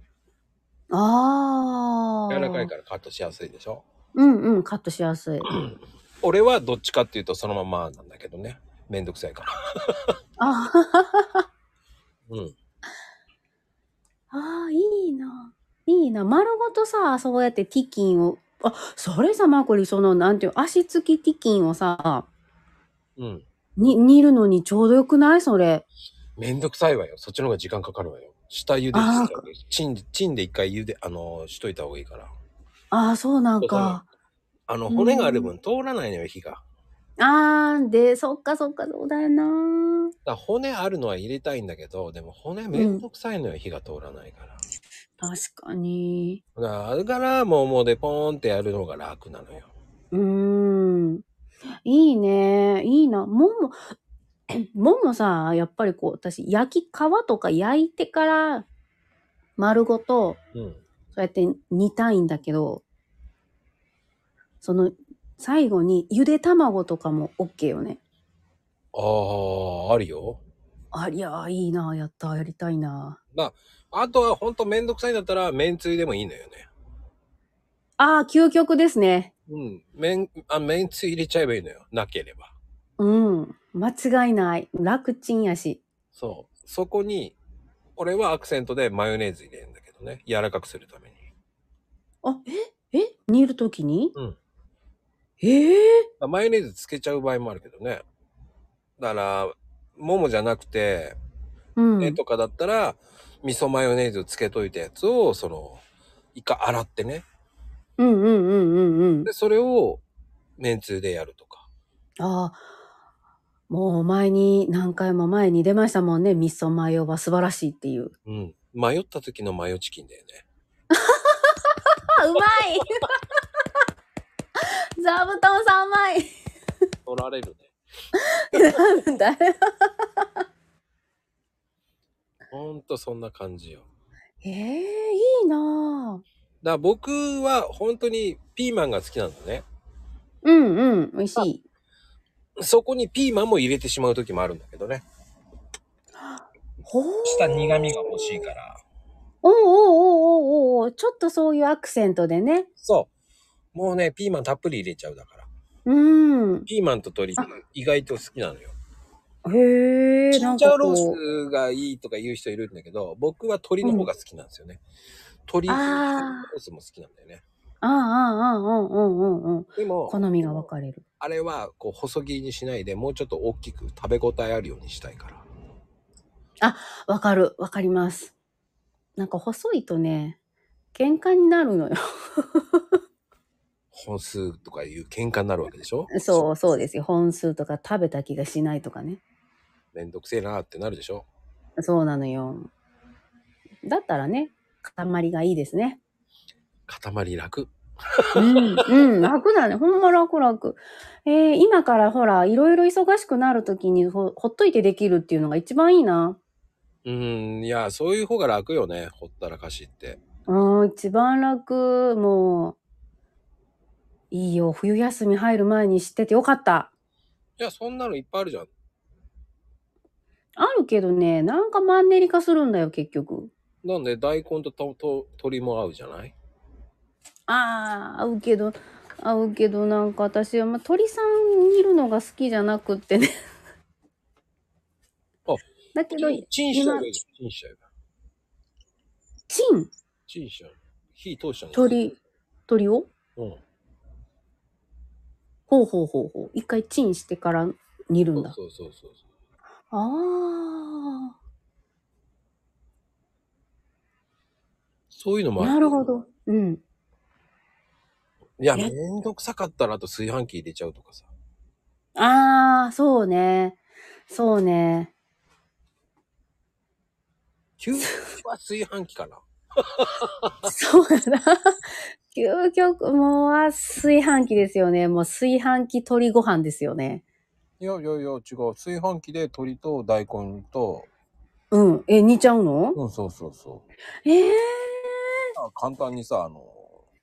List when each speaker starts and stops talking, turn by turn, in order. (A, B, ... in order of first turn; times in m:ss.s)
0:00.9-0:02.7 A
0:02.3-0:03.8 B
0:04.1-0:05.5 A
0:05.5-0:10.1 B
0:10.4-0:11.4 A
0:14.3-0:22.3 A
0:23.2-0:23.4 B
0:23.8-0:25.8 A
0:26.4-0:32.3 B
0:28.9-0:29.5 A
0:32.9-0:34.1 A
0:33.6-0:34.0 B
0:34.7-0:36.6 B
0:34.9-0:35.5 A
0:37.2-0:40.1 A
0:40.2-0:44.6 B
0:42.7-0:43.0 A
0:45.2-0:46.4 A
0:46.6-0:49.7 B
0:50.1-0:51.2 A
0:51.8-0:53.8 A
0:54.5-0:58.7 A
0:59.6-1:00.4 A
1:00.5-1:00.8 B
1:01.1-1:02.8 A
1:04.6-1:08.0 A
1:08.9-1:10.4 B
1:10.9-1:13.2 A
1:13.3-1:16.7 B
1:18.0-1:19.3 A
1:19.5-1:22.5 B
1:23.0-1:25.8 A
1:26.1-1:27.4 B
1:28.0-1:31.2 B
1:32.2-1:34.1 A
1:35.4-1:36.1 A
1:36.2-1:38.0 B
1:39.0-1:41.2 B
1:41.8-1:42.2 A
1:42.0-1:45.8 B
1:46.3-1:47.2 B
1:48.0-1:49.3 A
1:49.2-1:50.0 B
1:50.6-1:51.7 B
1:52.2-1:52.6 A
1:53.7-1:58.1 A
1:58.2-2:00.4 B
2:00.9-2:03.1 A
2:04.6-2:06.3 A
2:07.0-2:07.7 B
2:08.5-2:10.3 A
2:12.5-2:13.9 B
2:14.4-2:16.2 A
2:16.6-2:19.6 B
2:20.4-2:21.6 A
2:22.6-2:25.0 B
2:26.2-2:27.6 A
2:27.2-2:28.8 B
2:29.4-2:32.7 A
2:32.8-2:33.1 B
2:33.7-2:35.5 B
2:35.8-2:36.7 A
2:36.7-2:38.7 B
2:39.4-2:41.2 A
2:40.3-2:44.8 B
2:43.8-2:44.1 A
2:45.5-2:47.4 B
2:45.7-2:46.5 A
2:47.8-2:51.0 A
2:49.8-2:50.6 B
2:51.2-2:55.4 B
2:56.6-2:58.3 A
2:59.2-3:00.4 A
3:00.9-3:02.9 A
3:03.9-3:06.4 B
3:06.1-3:09.2 A
3:09.9-3:11.3 B
3:11.8-3:12.7 A
3:13.8-3:16.0 A
3:16.9-3:18.6 B
3:18.4-3:26.4 A
3:27.0-3:30.2 B
3:30.5-3:32.8 A
3:34.3-3:36.9 A
3:37.6-3:38.7 B
3:40.6-3:43.5 A
3:43.8-3:46.3 B
3:47.5-3:53.3 A
3:55.5-3:57.8 B
3:55.9-3:57.1 A
3:59.5-3:59.9 A
4:00.3-4:02.1 B
4:01.7-4:02.1 A
4:02.7-4:03.1 A
4:05.7-4:08.5 A
4:08.3-4:09.2 B
4:09.9-4:11.3 A
4:15.1-4:16.0 B
4:15.6-4:16.8 A
4:18.6-4:21.3 B
4:22.2-4:23.8 A
4:24.3-4:25.1 A
4:27.8-4:30.7 B
4:30.7-4:37.2 A
4:37.8-4:41.1 B
4:41.7-4:43.0 A
4:42.9-4:43.8 B
4:44.2-4:45.4 A
4:45.6-4:47.0 B